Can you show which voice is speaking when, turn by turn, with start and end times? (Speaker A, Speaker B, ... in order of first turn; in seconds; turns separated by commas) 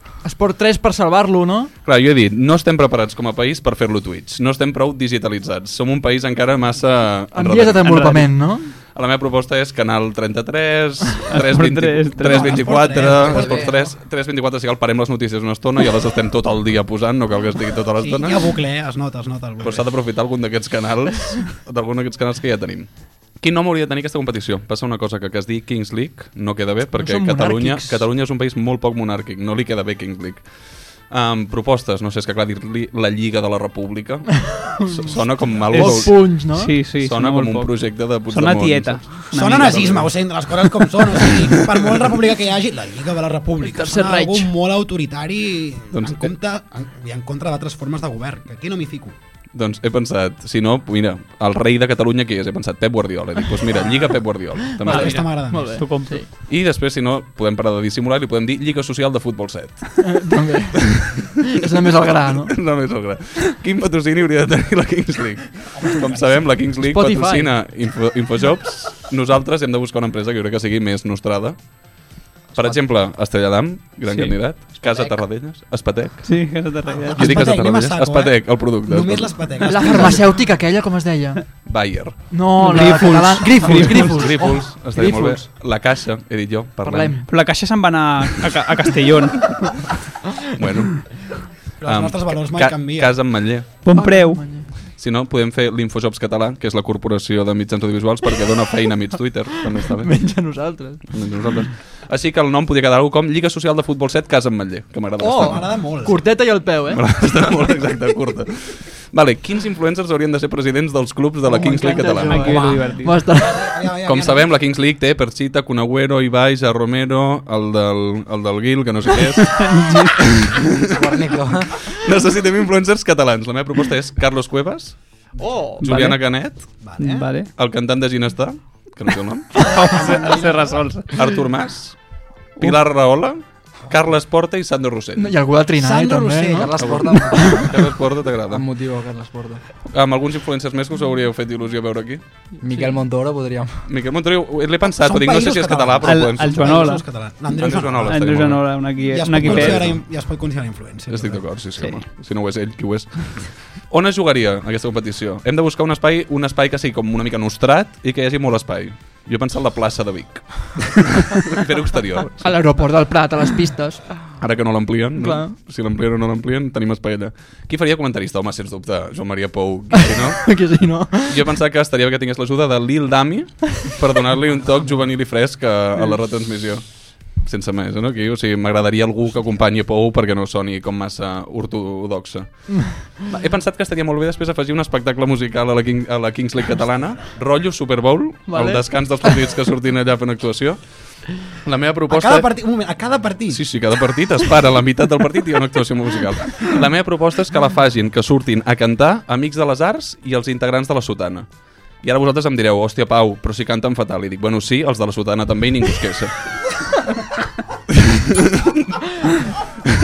Speaker A: 0.2-1.7, Speaker B: 1.9-8.2, Speaker A: 7.3-8.7, Speaker C: 7.8-8.5, Speaker B: 8.8-18.5, Speaker C: 11.3-13.0, Speaker D: 12.2-13.9, Speaker E: 13.2-13.7, Speaker D: 18.0-19.9, Speaker B: 19.6-40.1, Speaker A: 27.0-28.1, Speaker A: 34.5-36.8, Speaker C: 35.7-39.9, Speaker D: 39.3-49.1, Speaker A: 43.7-44.5, Speaker B: 45.9-46.3, Speaker B: 49.5-55.3, Speaker A: 54.8-56.3, Speaker D: 54.9-55.9, Speaker C: 54.9-56.3, Speaker B: 56.5-60.3, Speaker A: 60.0-62.5, Speaker B: 62.5-71.7, Speaker D: 65.7-66.5, Speaker A: 66.8-67.5, Speaker B: 72.5-80.1, Speaker C: 74.1-74.4, Speaker E: 74.8-75.2, Speaker C: 76.2-77.5, Speaker D: 76.9-80.3, Speaker A: 79.6-81.5, Speaker B: 81.7-82.2, Speaker A: 82.3-85.5, Speaker C: 82.6-84.6, Speaker B: 83.6-87.2, Speaker A: 86.8-87.3, Speaker C: 87.2-90.0, Speaker B: 90.6-91.1, Speaker D: 91.8-93.2, Speaker B: 91.8-93.7, Speaker C: 93.8-94.7, Speaker A: 93.9-94.8, Speaker B: 94.8-105.8, Speaker A: 99.9-101.2, Speaker A: 105.2-107.2, Speaker D: 105.3-106.2, Speaker B: 106.9-112.7, Speaker D: 111.5-112.5, Speaker A: 111.7-113.7, Speaker C: 112.1-113.3, Speaker D: 113.1-114.5, Speaker B: 114.1-121.3, Speaker C: 119.4-120.2, Speaker E: 120.9-121.7, Speaker B: 122.0-125.2, Speaker A: 125.4-125.8, Speaker C: 125.8-127.5, Speaker B: 125.8-126.8, Speaker D: 126.7-127.3, Speaker B: 127.5-129.7, Speaker C: 129.6-131.3, Speaker D: 129.6-130.9, Speaker B: 131.1-135.4, Speaker A: 135.2-136.7, Speaker D: 135.8-137.1, Speaker E: 136.6-137.8, Speaker B: 136.8-138.6, Speaker E: 138.5-139.6, Speaker B: 139.9-142.2, Speaker E: 142.6-143.9, Speaker B: 143.9-146.9, Speaker D: 145.0-151.6, Speaker C: 146.0-147.2, Speaker B: 147.5-150.0, Speaker C: 148.0-149.9, Speaker B: 151.1-162.7, Speaker C: 151.7-152.0, Speaker A: 162.4-164.3, Speaker B: 164.4-170.7, Speaker A: 165.2-165.6, Speaker A: 170.2-171.5, Speaker B: 171.3-192.5, Speaker A: 182.8-183.0, Speaker A: 188.5-189.4, Speaker D: 192.1-193.7, Speaker B: 193.5-207.0, Speaker B: 207.9-209.0